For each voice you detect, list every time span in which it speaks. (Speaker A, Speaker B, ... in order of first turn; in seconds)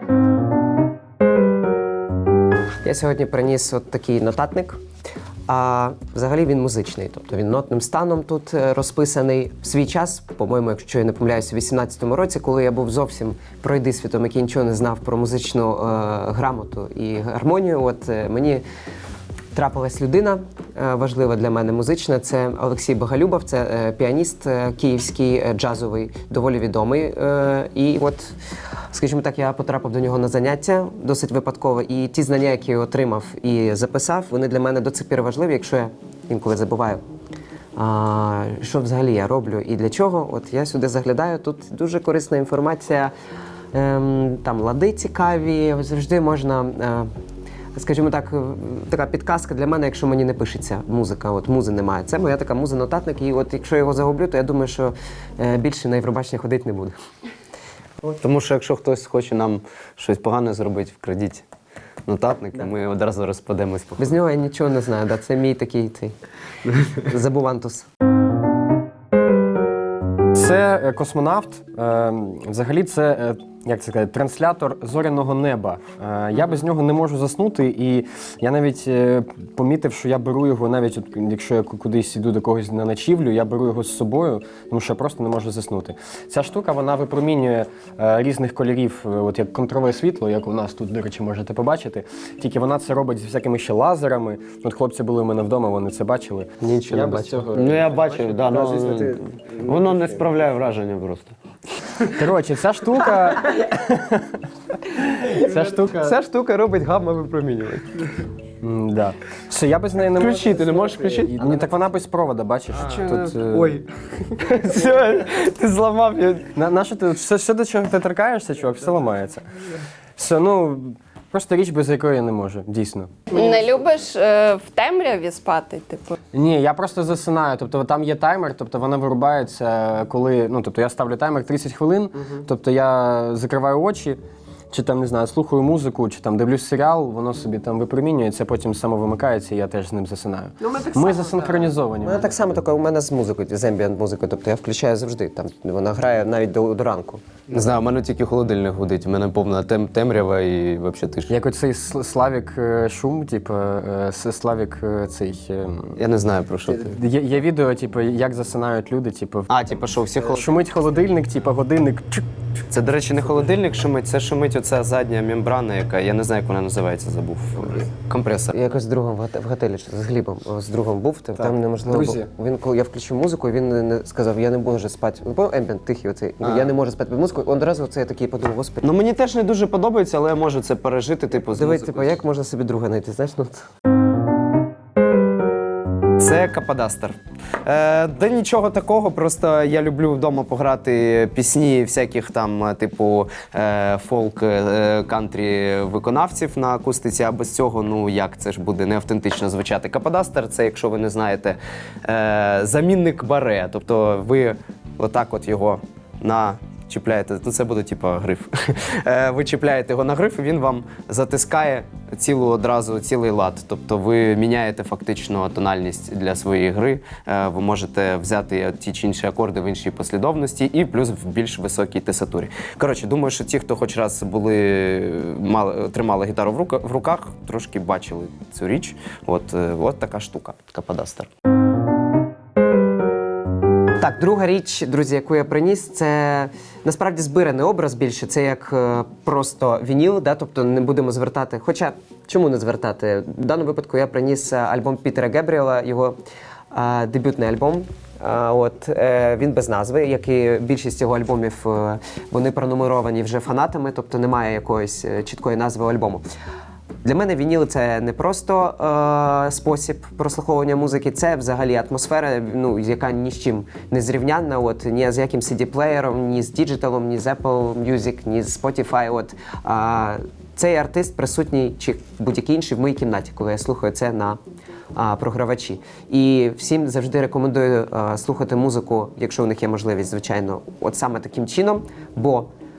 Speaker A: 2.9-4.8, 5.5-18.6, 19.5-28.4, 28.9-37.0, 37.8-43.1, 43.7-47.1, 47.8-57.0, 64.0-66.1, 66.8-67.9, 105.2-108.1, 140.6-147.2, 168.5-178.9, 181.4-183.7, 234.0-246.2, 246.7-256.2, 257.0-274.4, 275.0-282.5
Speaker B: 58.1-61.5, 62.1-64.2, 96.6-101.3, 110.1-111.7, 112.8-113.8, 114.3-116.5, 147.5-151.3, 156.0-157.0, 159.5-160.5, 162.7-168.6, 176.4-176.7, 178.8-182.2, 186.2-231.3
Speaker C: 70.3-97.9, 102.1-104.4, 104.9-106.1, 108.6-113.8, 116.5-123.2, 126.3-134.2, 134.7-142.4, 151.3-156.0, 156.7-159.5, 160.2-162.2, 171.9-172.2
Speaker D: 123.3-126.2